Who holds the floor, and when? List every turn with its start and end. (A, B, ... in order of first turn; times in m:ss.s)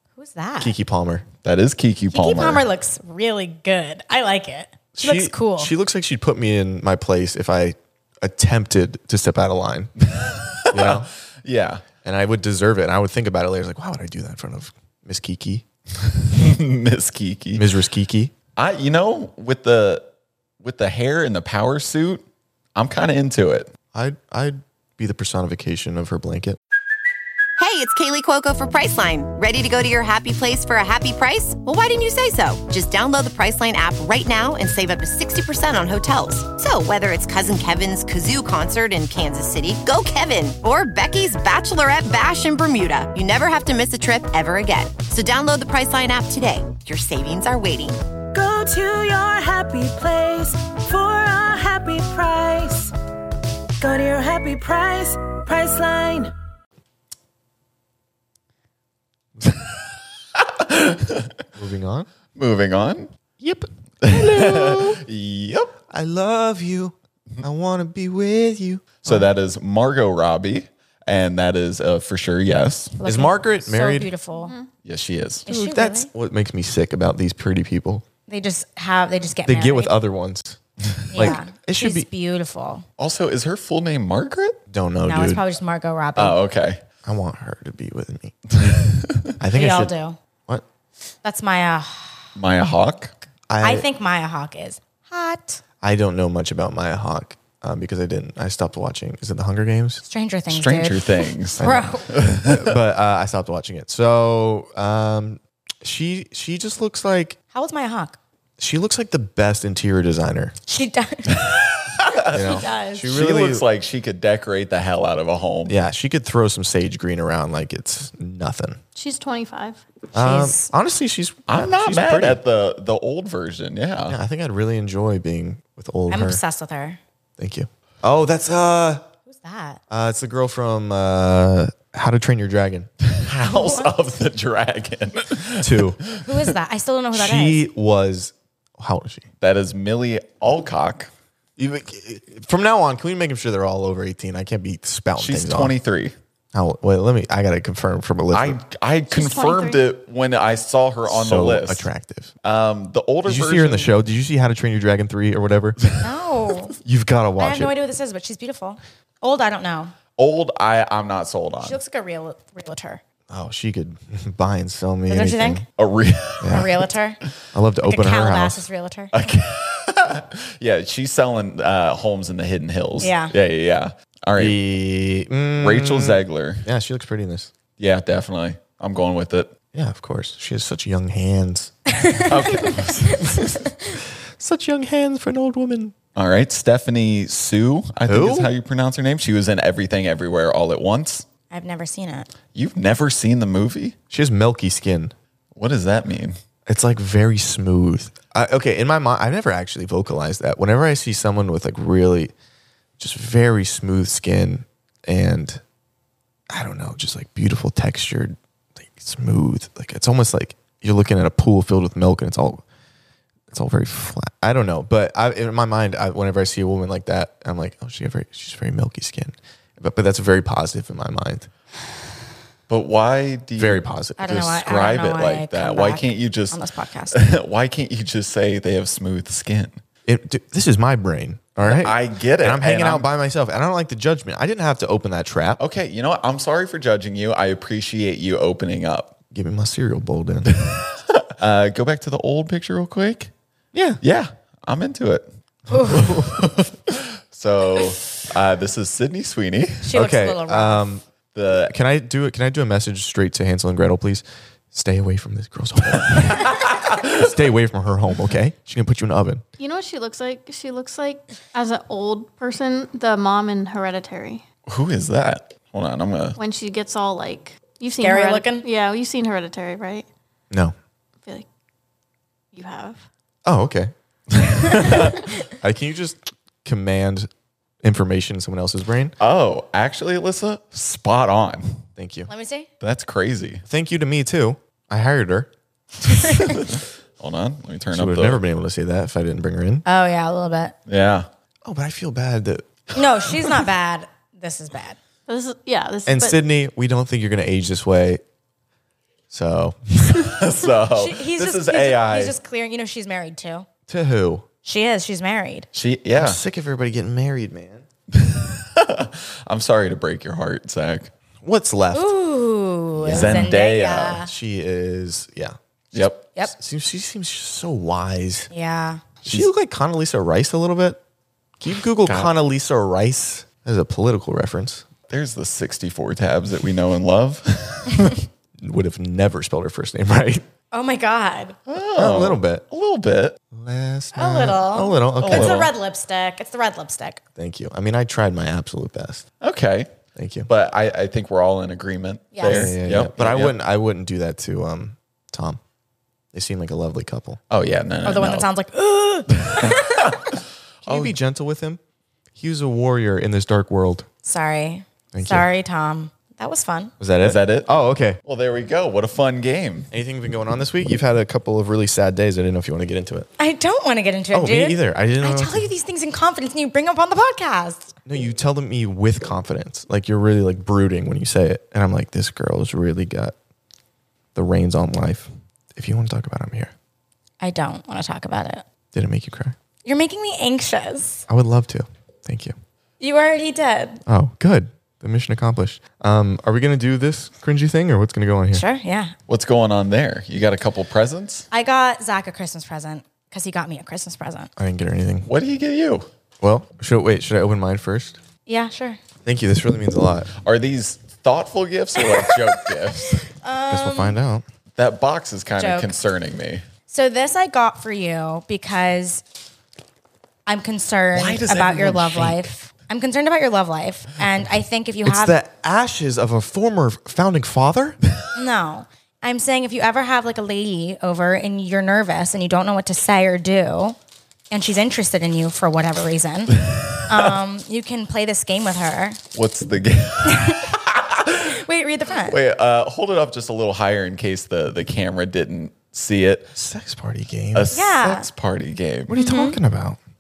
0:00.2-0:00.8 A
0:00.6-0:01.2 B
0:01.4-0:02.7 C
0:02.1-0:05.7 A
0:04.9-0:09.9 B
0:10.1-0:11.8 C
0:10.7-0:11.1 B
0:12.0-0:15.6 B
0:16.2-0:17.7 C
0:17.6-0:18.3 B
0:18.6-0:20.1 C
0:20.6-0:22.2 C
0:22.8-0:23.7 C
0:23.9-0:26.6 B
0:27.6-0:48.0 D
0:48.3-0:52.9 E
0:53.8-0:56.3 E
1:00.4-1:01.3 C
1:01.6-1:02.1 B
1:02.4-1:03.1 C
1:03.4-1:05.0 B
1:04.0-1:05.7 C
1:05.9-1:09.3 B
1:09.0-1:13.0 C
1:13.0-1:14.5 A
1:13.0-1:14.1 B
1:14.3-1:14.7 F
1:14.9-1:15.4 C
1:15.5-1:16.1 A
1:15.5-1:18.0 B
1:18.3-1:19.9 A
1:19.5-1:20.6 B
1:21.1-1:22.9 A
1:21.1-1:22.1 B
1:23.0-1:24.6 C
1:24.7-1:25.4 B
1:25.1-1:26.4 A
1:26.2-1:26.8 C
1:27.0-1:28.4 B
1:28.6-1:29.3 C
1:29.4-1:30.0 B
1:29.5-1:30.2 A
1:31.2-1:32.2 A
1:32.4-1:33.2 C
1:33.5-1:33.9 B
1:33.6-1:35.6 A
1:35.8-1:40.0 B
1:40.0-1:42.1 A
1:40.5-1:42.8 C
1:41.6-1:47.4 B
1:47.5-1:48.2 A
1:48.6-1:50.6 B
1:50.7-1:53.1 A
1:51.3-1:55.8 C
1:52.3-1:53.6 B
1:55.7-1:58.8 B
1:59.0-1:59.8 F
2:00.1-2:02.4 B
2:00.2-2:00.7 A
2:01.5-2:04.2 C
2:04.1-2:06.4 B
2:06.1-2:07.0 A
2:07.4-2:09.0 B
2:09.3-2:09.8 A
2:09.9-2:12.9 B
2:13.0-2:16.5 C
2:13.5-2:14.0 A
2:15.6-2:16.0 B
2:16.2-2:17.6 A
2:17.1-2:19.3 B
2:19.4-2:21.1 C
2:21.6-2:25.8 B
2:25.2-2:26.2 C
2:26.5-2:28.6 B
2:28.3-2:31.9 C
2:29.1-2:29.8 F
2:31.1-2:32.3 B
2:32.4-2:33.9 C
2:33.3-2:35.8 B
2:36.0-2:36.8 A
2:36.8-2:37.8 B
2:37.4-2:40.0 A
2:40.2-2:41.8 C
2:41.6-2:43.0 A
2:43.3-2:45.6 B
2:45.1-2:45.6 A
2:45.8-2:46.7 C
2:46.4-2:46.7 B
2:46.5-2:47.2 A
2:47.5-2:48.6 B
2:47.8-2:49.1 A
2:49.1-2:54.6 C
2:53.0-2:53.3 A
2:54.4-2:57.5 B
2:55.6-2:56.6 C
2:57.8-2:59.5 C
2:59.7-3:06.0 B
3:02.0-3:02.7 A
3:02.3-3:03.4 C
3:06.2-3:11.3 C
3:08.1-3:08.5 B
3:11.5-3:12.3 A
3:12.5-3:14.0 C
3:14.1-3:15.1 B
3:15.6-3:16.4 C
3:16.7-3:22.3 B
3:23.0-3:25.6 B
3:26.5-3:32.6 B
3:33.5-3:41.5 B
3:42.7-3:46.6 C
3:43.6-3:44.3 B
3:44.2-3:47.2 A
3:47.1-3:49.8 C
3:50.1-3:55.6 B
3:51.6-3:53.1 C
3:55.6-3:59.2 C
3:59.3-4:00.5 B
4:00.6-4:03.3 C
4:03.7-4:04.0 B
4:04.0-4:05.3 C
4:05.7-4:06.1 A
4:05.8-4:06.4 B
4:05.9-4:09.9 C
4:09.8-4:10.8 A
4:09.9-4:19.4 B
4:11.3-4:11.7 C
4:16.5-4:17.1 C
4:19.6-4:24.4 F
4:24.7-4:26.4 C
4:26.4-4:30.1 F
4:28.0-4:28.7 A
4:32.5-4:33.0 F
4:33.5-4:33.9 B
4:34.4-4:35.2 C
4:35.5-4:37.3 B
4:37.8-4:39.2 B
4:39.2-4:41.8 C
4:42.0-4:42.3 B
4:42.3-4:42.7 A
4:42.8-4:43.6 C
4:43.7-4:45.5 B
4:46.1-4:46.6 A
4:46.2-4:48.4 C
4:47.9-4:49.8 B
4:49.9-4:50.7 A
4:50.9-4:51.3 C
4:51.6-4:52.7 B
4:53.0-4:55.0 A
4:55.3-4:56.4 F
4:56.1-4:58.2 B
4:59.3-5:00.4 B
5:00.3-5:02.4 C
5:00.9-5:03.7 A
5:03.9-5:04.4 B
5:04.6-5:05.7 A
5:05.7-5:06.4 C
5:06.2-5:07.9 B
5:08.1-5:11.1 C
5:11.4-5:12.2 B
5:11.9-5:14.3 A
5:13.0-5:13.6 B
5:13.1-5:14.2 C
5:14.2-5:15.6 B
5:15.9-5:16.3 C
5:16.4-5:18.5 B
5:18.5-5:19.0 A
5:19.2-5:21.0 B
5:21.6-5:24.8 B
5:22.0-5:22.3 C
5:25.1-5:28.3 C
5:28.6-5:30.5 B
5:30.7-5:31.6 A
5:31.7-5:33.4 C
5:32.0-5:32.6 B
5:33.5-5:35.7 B
5:34.2-5:37.2 A
5:35.2-5:35.7 C
5:37.4-5:39.2 B
5:39.4-5:39.9 C
5:40.2-5:40.5 B
5:40.5-5:43.6 C
5:42.3-5:42.7 A
5:42.4-5:45.6 B
5:46.3-5:47.4 B
5:47.5-5:48.5 C
5:48.0-5:50.2 A
5:49.4-5:51.2 C
5:50.8-5:51.8 B
5:52.4-5:54.1 B
5:54.2-5:56.9 A
5:55.1-5:55.5 B
5:57.0-5:58.2 B
5:57.2-5:57.7 C
5:58.3-5:59.9 C
5:59.9-6:03.3 B
6:03.4-6:07.9 A
6:04.3-6:05.7 B
6:08.1-6:13.3 B
6:14.4-6:16.7 B
6:17.4-6:18.6 A
6:18.9-6:19.6 B
6:19.8-6:21.3 A
6:21.3-6:22.6 B
6:23.0-6:24.0 A
6:24.1-6:28.6 B
6:28.5-6:29.1 A
6:29.3-6:31.5 C
6:31.5-6:34.5 A
6:34.6-6:35.3 B
6:35.3-6:36.1 C
6:36.4-6:38.2 B
6:38.5-6:39.0 A
6:39.2-6:40.3 B
6:40.4-6:43.3 C
6:42.1-6:42.4 A
6:43.0-6:44.2 A
6:43.7-6:44.4 B
6:44.8-6:46.6 C
6:45.6-6:45.9 A
6:46.9-6:49.2 A
6:50.5-6:55.4 A
6:51.1-6:52.5 C
6:55.0-6:58.0 B
6:58.4-7:04.0 A
7:04.5-7:09.2 A
7:09.4-7:11.5 C
7:10.2-7:10.8 A
7:11.3-7:12.4 A
7:12.2-7:16.6 C
7:16.6-7:17.7 B
7:17.5-7:19.2 C
7:17.7-7:18.3 A
7:19.1-7:20.0 B
7:19.2-7:19.6 A